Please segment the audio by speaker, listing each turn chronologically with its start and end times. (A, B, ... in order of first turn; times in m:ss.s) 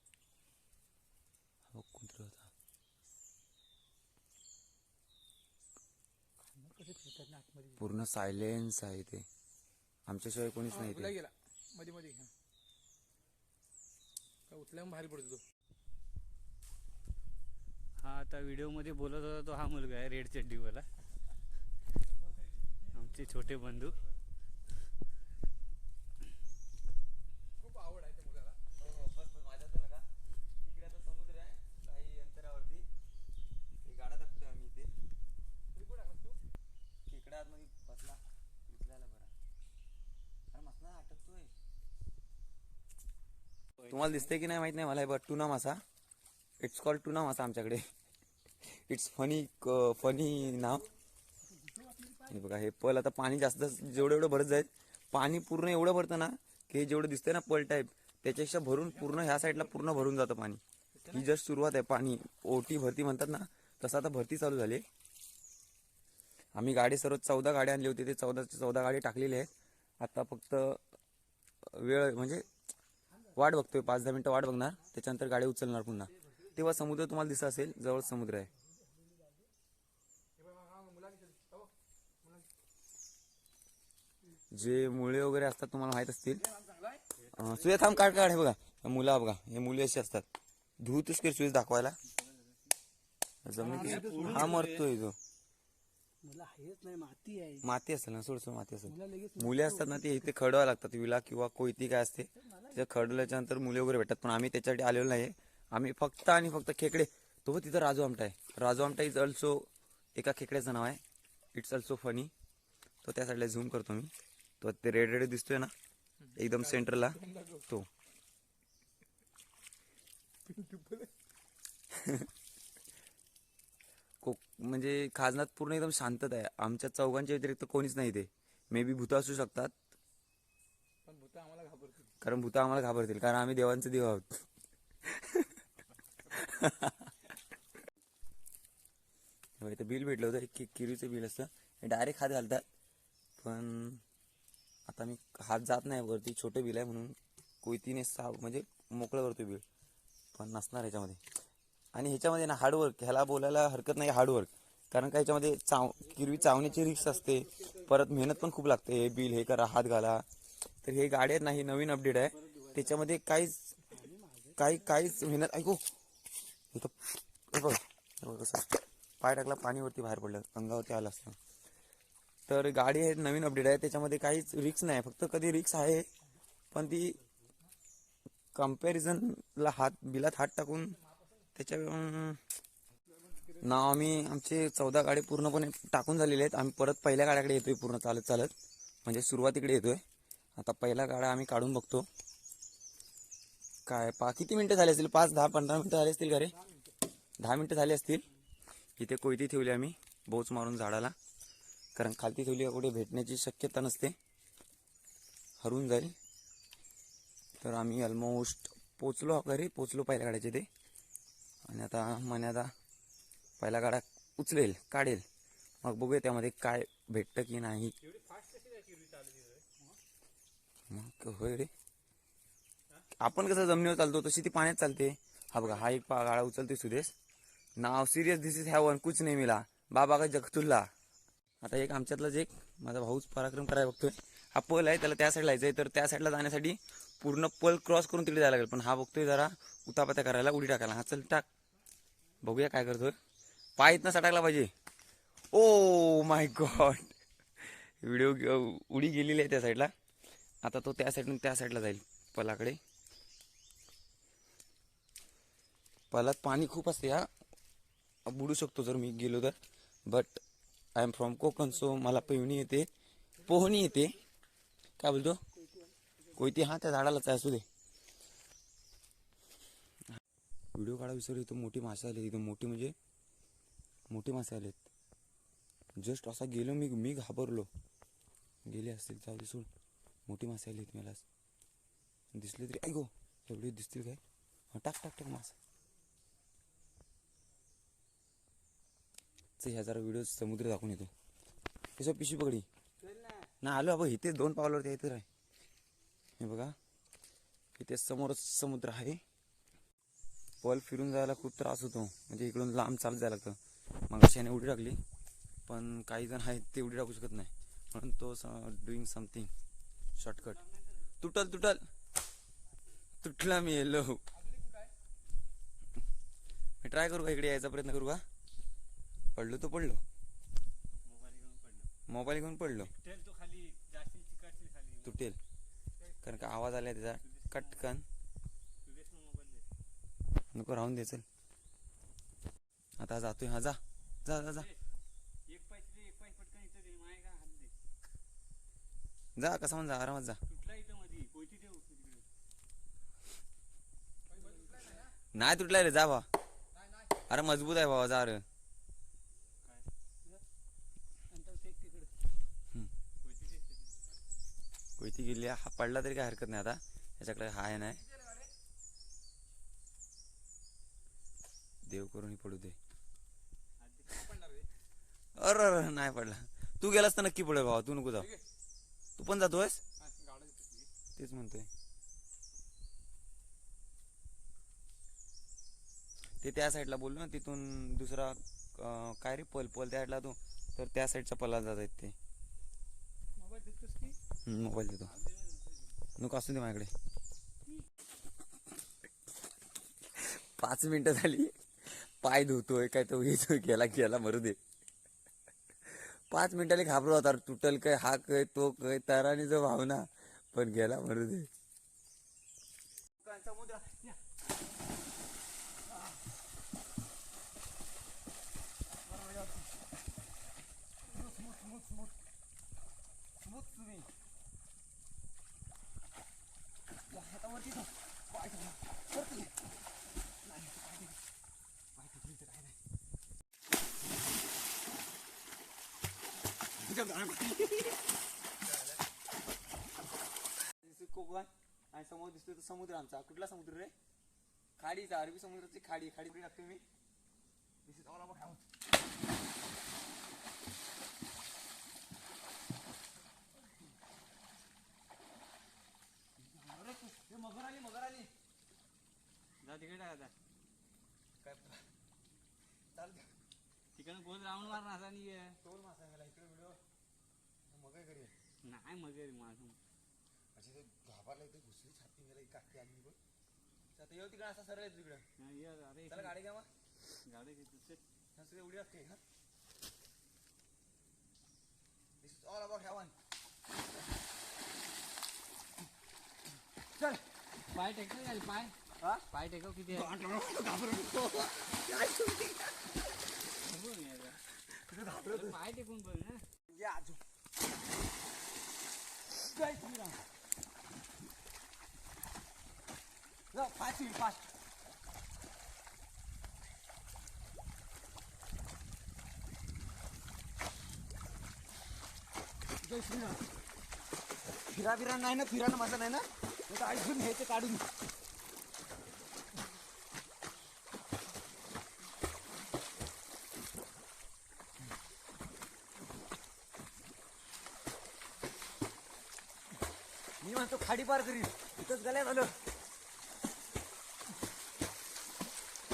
0:01.7-0:02.5 A
0:06.6-0:07.8 B
0:07.8-0:09.3 A
0:10.1-0:11.2 A
0:10.7-0:12.3 C
0:14.5-0:15.4 C
0:18.0-0:20.9 D
0:22.9-0:24.0 D
0:27.6-0:28.6 C
0:28.8-0:30.1 A
0:30.6-0:32.9 A
0:33.8-0:34.9 A
0:35.7-0:36.4 C
0:37.1-0:39.3 A
0:40.5-0:41.5 A
0:43.8-0:45.8 A
0:46.6-0:47.9 A
0:48.6-0:50.9 A
0:51.8-0:52.3 B
0:52.3-1:04.9 A
0:59.2-0:59.5 C
1:01.0-1:01.2 C
1:06.6-1:10.8 A
1:11.6-1:12.5 A
1:13.4-1:18.5 A
1:20.4-1:22.5 C
1:24.5-1:26.5 A
1:26.4-1:27.0 C
1:27.2-1:28.1 D
1:27.3-1:30.2 A
1:30.8-1:32.0 A
1:33.4-1:35.2 A
1:33.6-1:34.7 B
1:33.7-1:34.8 D
1:36.2-1:37.7 B
1:37.6-1:51.0 A
1:38.9-1:40.0 B
1:42.4-1:42.9 B
1:51.5-1:52.3 A
1:53.0-1:55.7 A
1:56.2-1:57.6 C
1:56.4-1:57.9 A
2:00.4-2:01.1 C
2:01.9-2:02.3 A
2:04.2-2:09.8 A
2:11.0-2:12.1 C
2:12.2-2:14.4 A
2:15.1-2:15.5 A
2:16.3-2:17.1 A
2:19.6-2:22.6 A
2:23.4-2:24.0 A
2:24.9-2:29.6 A
2:30.3-2:31.2 A
2:31.9-2:40.3 A
2:36.2-2:36.7 B
2:40.8-2:43.9 A
2:42.5-2:42.8 D
2:43.9-2:44.7 B
2:44.6-2:45.9 A
2:46.7-2:51.4 A
2:52.5-2:56.1 A
2:56.7-2:57.2 A
2:58.6-3:01.0 A
3:01.6-3:02.4 A
3:03.2-3:04.2 C
3:03.6-3:08.5 A
3:09.0-3:10.0 A
3:10.6-3:12.1 A
3:13.9-3:16.6 A
3:17.4-3:18.3 A
3:19.0-3:21.2 A
3:22.0-3:24.2 A
3:25.6-3:26.2 A
3:27.6-3:30.7 A
3:31.7-3:32.7 A
3:33.6-3:35.2 A
3:35.8-3:38.0 A
3:38.0-3:39.7 D
3:40.9-3:41.7 A
3:43.2-3:47.1 A
3:47.8-3:50.9 A
3:51.6-4:01.5 A
4:02.4-4:03.2 A
4:03.8-4:04.7 A
4:05.5-4:09.9 A
4:10.6-4:12.8 A
4:16.1-4:17.3 A
4:18.3-4:20.4 A
4:21.0-4:22.9 A
4:23.4-4:24.2 A
4:25.0-4:25.4 A
4:25.5-4:26.1 B
4:26.4-4:27.6 A
4:30.8-4:33.0 A
4:34.1-4:34.8 A
4:36.0-4:37.7 A
4:38.6-4:39.7 A
4:40.3-4:41.2 A
4:42.3-4:44.2 A
4:44.7-4:45.6 A
4:49.6-4:51.1 A
4:52.0-4:52.7 A
4:53.1-4:53.4 D
4:53.6-4:55.3 A
4:56.4-4:56.8 A
4:57.8-4:59.2 A
5:00.6-5:03.6 A
5:04.1-5:05.0 A
5:05.7-5:09.5 A
5:10.2-5:10.6 A
5:11.2-5:11.8 A
5:13.2-5:14.2 A
5:14.4-5:14.9 C
5:16.8-5:18.2 A
5:19.4-5:20.0 A
5:21.0-5:21.9 D
5:22.1-5:23.0 A
5:22.9-5:25.3 D
5:25.0-5:25.4 A
5:26.2-5:28.0 A
5:27.2-5:27.9 D
5:28.8-5:29.6 D
5:30.5-5:31.2 A
5:33.0-5:34.7 A
5:34.4-5:34.8 D
5:35.5-5:37.7 D
5:39.4-5:40.4 A
5:40.5-5:42.2 D
5:44.3-5:45.1 C
5:45.3-5:46.3 A
5:46.7-5:47.2 C
5:47.3-5:48.4 A
5:51.3-5:52.1 B
5:53.2-5:53.9 D
5:55.0-5:58.0 A
6:01.8-6:02.8 A
6:03.8-6:04.2 D
6:04.1-6:04.7 C
6:05.4-6:08.3 A
6:09.2-6:09.8 A
6:10.0-6:10.9 C
6:11.2-6:11.7 A
6:16.4-6:22.2 A
6:23.5-6:24.2 B
6:24.4-6:25.2 A
6:25.1-6:25.8 D
6:26.2-6:26.9 A
6:30.2-6:34.6 A
6:35.9-6:41.5 A
6:43.2-6:44.0 A
6:49.2-6:49.6 A
6:51.2-6:52.1 A
6:53.4-6:54.1 A
6:57.1-6:59.5 A
7:00.5-7:01.1 A
7:02.0-7:02.8 A
7:06.9-7:08.0 A
7:10.8-7:13.9 A
7:14.8-7:16.8 A
7:17.9-7:18.6 A
7:26.5-7:28.3 A
7:29.6-7:30.3 D
7:31.4-7:31.8 A
7:33.0-7:33.3 A
7:34.0-7:35.6 D
7:35.6-7:36.8 A
7:37.7-7:38.3 A
7:38.6-7:39.8 D
7:40.6-7:43.2 A
7:44.0-7:45.2 A
7:45.4-7:46.4 D
7:46.1-7:46.7 A
7:47.3-7:48.0 D
7:48.4-7:49.2 A
7:52.2-7:53.1 A
7:57.7-8:00.1 D
8:00.1-8:02.6 A
8:03.6-8:04.4 D
8:04.9-8:05.6 A
8:05.2-8:06.4 D
8:06.8-8:07.2 A
8:09.5-8:10.2 A
8:13.5-8:14.5 A
8:22.9-8:23.4 A
8:24.7-8:27.9 A
8:40.4-8:42.6 A